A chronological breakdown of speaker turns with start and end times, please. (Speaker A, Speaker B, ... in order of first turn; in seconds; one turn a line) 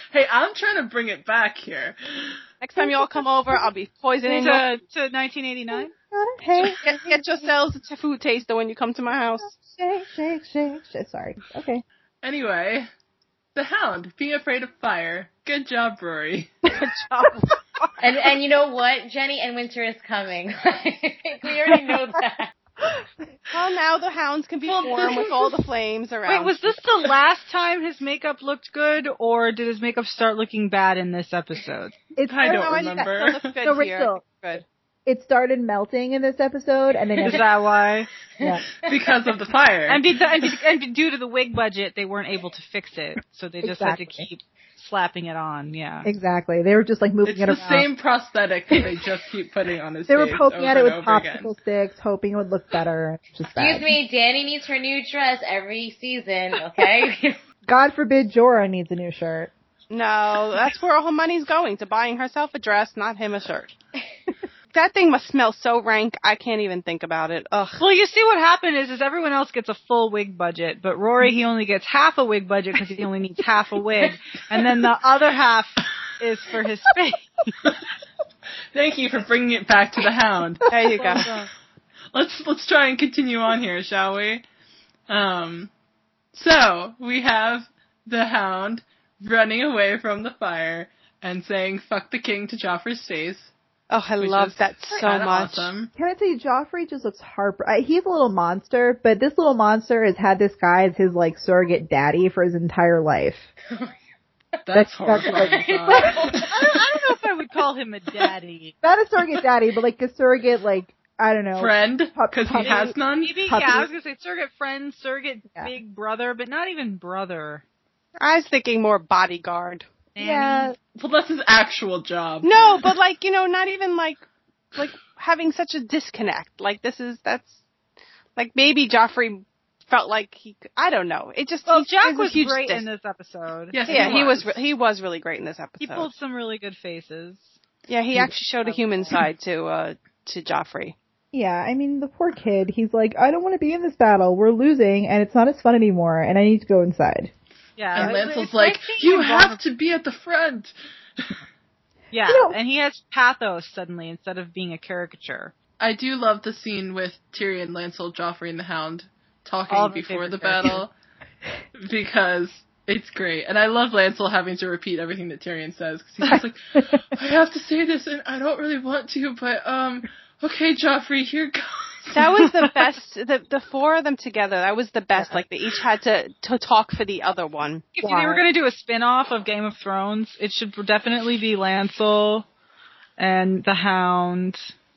Speaker A: 0.1-2.4
Speaker B: 2.6-4.8
Speaker C: 2.8-3.7
Speaker D: 4.2-5.9
Speaker C: 5.7-7.5
Speaker B: 6.6-9.6
Speaker C: 9.4-11.8
Speaker A: 12.2-12.9
Speaker A: 13.6-16.6
Speaker B: 16.7-18.0
Speaker E: 18.0-22.5
Speaker B: 23.5-26.7
Speaker A: 24.7-25.4
Speaker D: 26.3-32.0
Speaker C: 32.2-34.4
Speaker A: 32.3-33.6
Speaker B: 32.4-34.6
Speaker C: 35.1-37.4
Speaker D: 37.2-38.1
Speaker A: 38.8-40.1
Speaker D: 39.9-46.1
Speaker C: 43.6-44.3
Speaker C: 46.0-47.9
Speaker A: 47.2-51.5
Speaker C: 50.1-54.0
Speaker E: 53.6-57.4
Speaker C: 57.7-59.5
Speaker B: 59.9-63.7
Speaker B: 64.7-67.8
Speaker D: 67.8-77.5
Speaker A: 78.7-80.7
Speaker B: 80.7-81.3
Speaker D: 81.0-81.5
Speaker A: 82.1-84.4
Speaker A: 85.1-85.7
Speaker A: 86.3-93.5
Speaker B: 93.9-95.7
Speaker A: 94.2-95.9
Speaker C: 95.9-103.5
Speaker A: 104.7-106.7
Speaker C: 104.7-106.4
Speaker E: 105.1-106.5
Speaker D: 106.5-108.8
Speaker C: 108.8-113.0
Speaker A: 111.6-113.5
Speaker D: 112.6-117.6
Speaker C: 113.5-113.9
Speaker B: 118.2-119.9
Speaker D: 120.2-120.7
Speaker C: 120.2-120.8
Speaker A: 121.0-122.9
Speaker B: 122.4-124.2
Speaker B: 124.8-127.6
Speaker B: 128.4-132.9
Speaker D: 131.7-134.3
Speaker A: 133.7-134.6
Speaker B: 133.9-136.1
Speaker D: 135.8-137.5
Speaker B: 137.9-141.0
Speaker C: 141.3-147.3
Speaker D: 147.8-149.6
Speaker A: 147.9-151.3
Speaker D: 152.1-155.5
Speaker C: 152.3-152.6
Speaker A: 155.8-160.9
Speaker D: 159.7-160.8
Speaker A: 161.8-172.5
Speaker B: 172.1-177.9
Speaker D: 178.0-182.5
Speaker C: 178.0-178.4
Speaker D: 183.2-184.7